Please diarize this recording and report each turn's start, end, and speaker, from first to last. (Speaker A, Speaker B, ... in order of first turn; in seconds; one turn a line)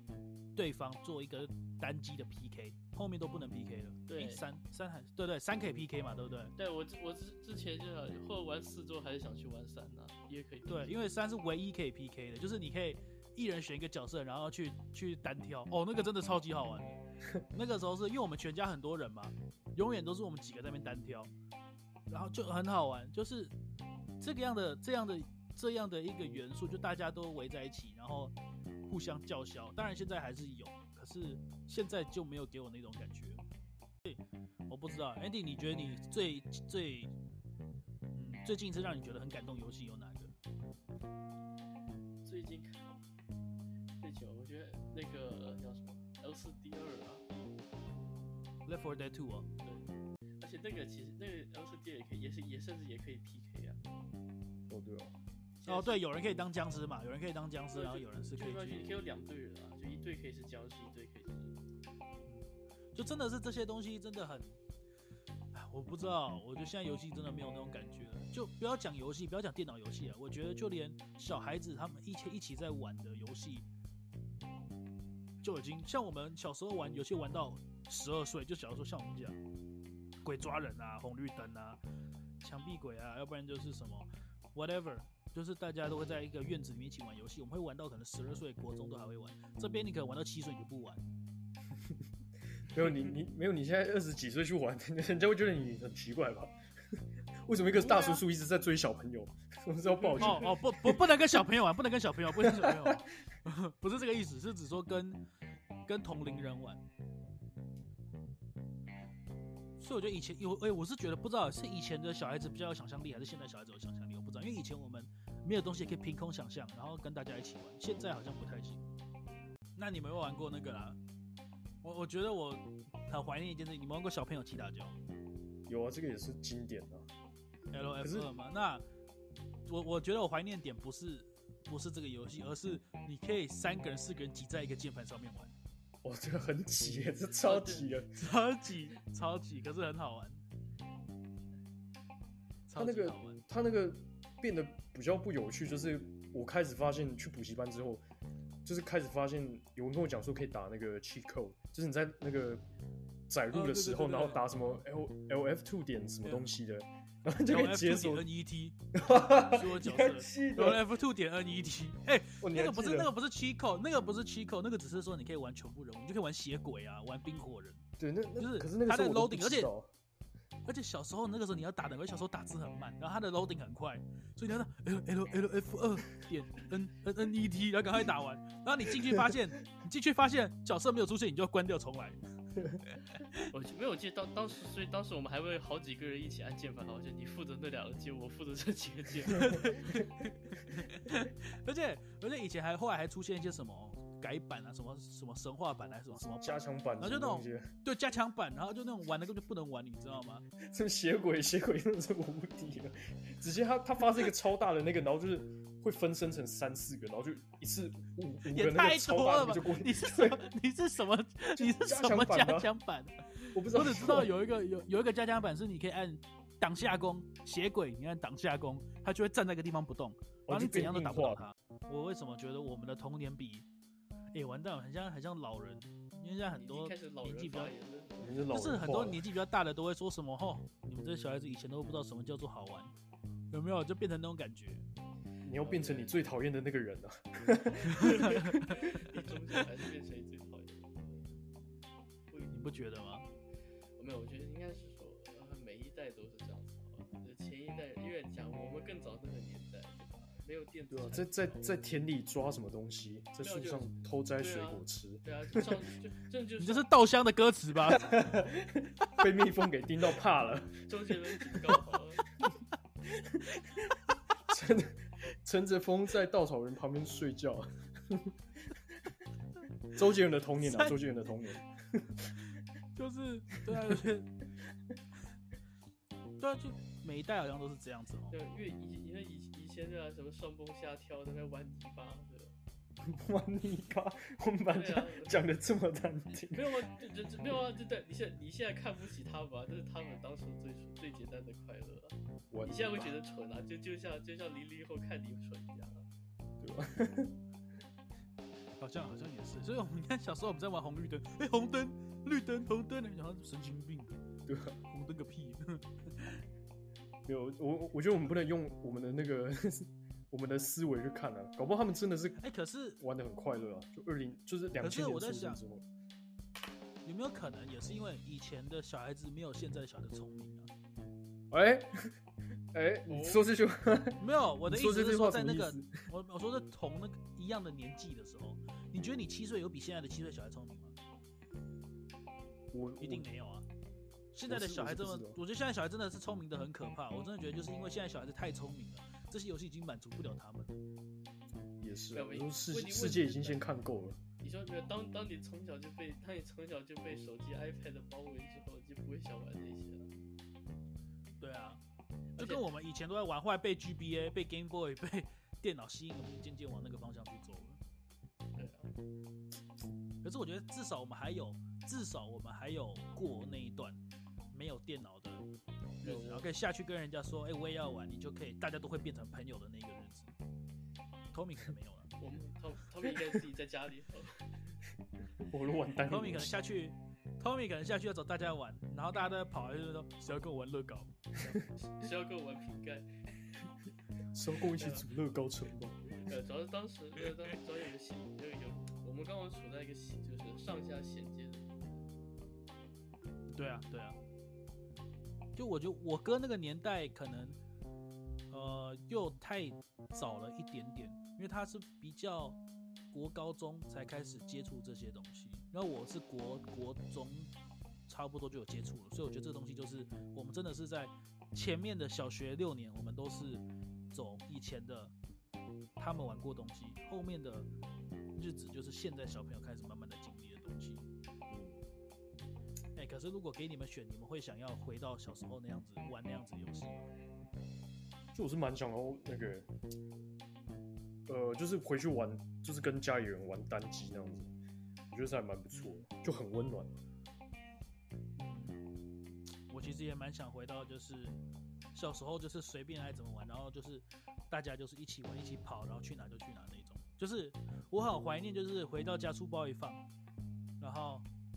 Speaker A: 0.6-6.5
Speaker B: 4.1-4.4
Speaker B: 6.6-10.9
Speaker A: 10.7-21.3
Speaker A: 22.1-23.5
Speaker A: 24.2-28.3
Speaker A: 28.9-33.5
Speaker A: 34.0-37.1
Speaker A: 38.1-40.3
Speaker B: 42.2-43.0
Speaker B: 44.0-47.2
Speaker A: 48.7-49.5
Speaker B: 49.6-49.9
Speaker B: 50.4-53.8
Speaker C: 54.7-55.1
Speaker B: 55.6-56.0
Speaker A: 55.6-58.9
Speaker B: 57.7-61.6
Speaker A: 62.3-64.6
Speaker A: 65.5-73.7
Speaker A: 75.4-79.4
Speaker A: 80.2-81.8
Speaker A: 82.4-91.0
Speaker C: 92.7-101.0
Speaker A: 97.8-98.2
Speaker A: 100.2-105.3
Speaker C: 102.4-103.0
Speaker A: 105.9-106.8
Speaker A: 109.8-118.8
Speaker A: 119.8-121.0
Speaker A: 121.8-125.0
Speaker C: 125.7-127.1
Speaker A: 127.7-128.8
Speaker C: 128.0-128.3
Speaker A: 129.7-135.5
Speaker C: 136.0-138.1
Speaker B: 137.4-137.9
Speaker A: 138.2-140.4
Speaker A: 142.7-143.4
Speaker C: 142.8-148.0
Speaker C: 148.7-152.6
Speaker C: 153.3-158.3
Speaker A: 153.5-154.6
Speaker A: 156.2-156.5
Speaker A: 157.4-167.8
Speaker C: 158.9-160.8
Speaker C: 162.4-163.1
Speaker C: 168.0-169.9
Speaker A: 168.4-169.7
Speaker A: 170.7-182.2
Speaker A: 183.1-183.4
Speaker B: 183.5-190.0
Speaker A: 189.3-200.5
Speaker C: 196.2-197.7
Speaker C: 200.6-210.5
Speaker A: 208.5-223.7
Speaker C: 211.6-212.7
Speaker C: 213.5-214.3
Speaker C: 220.5-221.4
Speaker A: 224.3-227.7
Speaker B: 226.6-228.4
Speaker C: 228.2-229.2
Speaker A: 228.5-232.9
Speaker A: 233.5-234.8
Speaker C: 235.4-238.7
Speaker B: 235.6-236.2
Speaker A: 237.9-238.7
Speaker B: 238.6-241.3
Speaker A: 242.5-243.3
Speaker B: 244.0-251.7
Speaker C: 250.9-255.8
Speaker B: 253.4-256.9
Speaker A: 256.6-258.2
Speaker C: 257.9-261.8
Speaker B: 260.9-262.2
Speaker C: 263.1-268.3
Speaker C: 269.9-272.3
Speaker A: 270.6-271.0
Speaker A: 272.9-274.4
Speaker A: 276.4-278.4
Speaker B: 278.3-282.6
Speaker C: 283.0-286.9
Speaker B: 284.7-285.4
Speaker B: 286.5-296.1
Speaker C: 292.5-293.2
Speaker C: 296.6-297.4
Speaker A: 298.8-304.2
Speaker C: 304.5-304.8
Speaker A: 304.8-306.4
Speaker C: 307.3-312.4
Speaker A: 312.4-313.0
Speaker C: 313.0-315.9
Speaker A: 314.8-315.6
Speaker A: 317.1-320.7
Speaker C: 321.5-322.1
Speaker C: 322.7-326.0
Speaker B: 323.1-323.5
Speaker A: 324.2-330.9
Speaker C: 332.7-333.3
Speaker A: 333.0-333.7
Speaker A: 334.3-340.8
Speaker C: 334.5-335.4
Speaker C: 341.8-344.2
Speaker B: 342.1-343.6
Speaker B: 344.4-350.1
Speaker A: 351.4-351.8
Speaker B: 352.4-352.6
Speaker A: 352.4-357.8
Speaker B: 358.6-358.9
Speaker A: 360.2-364.0
Speaker A: 364.5-365.4
Speaker A: 366.0-370.3
Speaker B: 366.0-366.5
Speaker A: 371.3-372.1
Speaker B: 372.2-374.6
Speaker C: 375.4-376.6
Speaker A: 376.0-381.1
Speaker B: 381.4-383.2
Speaker C: 384.3-386.0
Speaker B: 384.8-385.1
Speaker B: 386.2-392.1
Speaker A: 393.5-394.2
Speaker A: 395.6-397.6
Speaker A: 398.5-402.6
Speaker A: 403.1-407.5
Speaker A: 408.1-415.1
Speaker A: 416.0-417.7
Speaker A: 418.4-421.1
Speaker C: 421.5-421.8
Speaker A: 423.0-427.1
Speaker C: 428.3-429.7
Speaker C: 431.3-434.5
Speaker C: 435.1-436.9
Speaker A: 435.7-436.1
Speaker A: 438.4-438.9
Speaker A: 439.7-441.4
Speaker A: 441.9-450.0
Speaker A: 450.8-451.3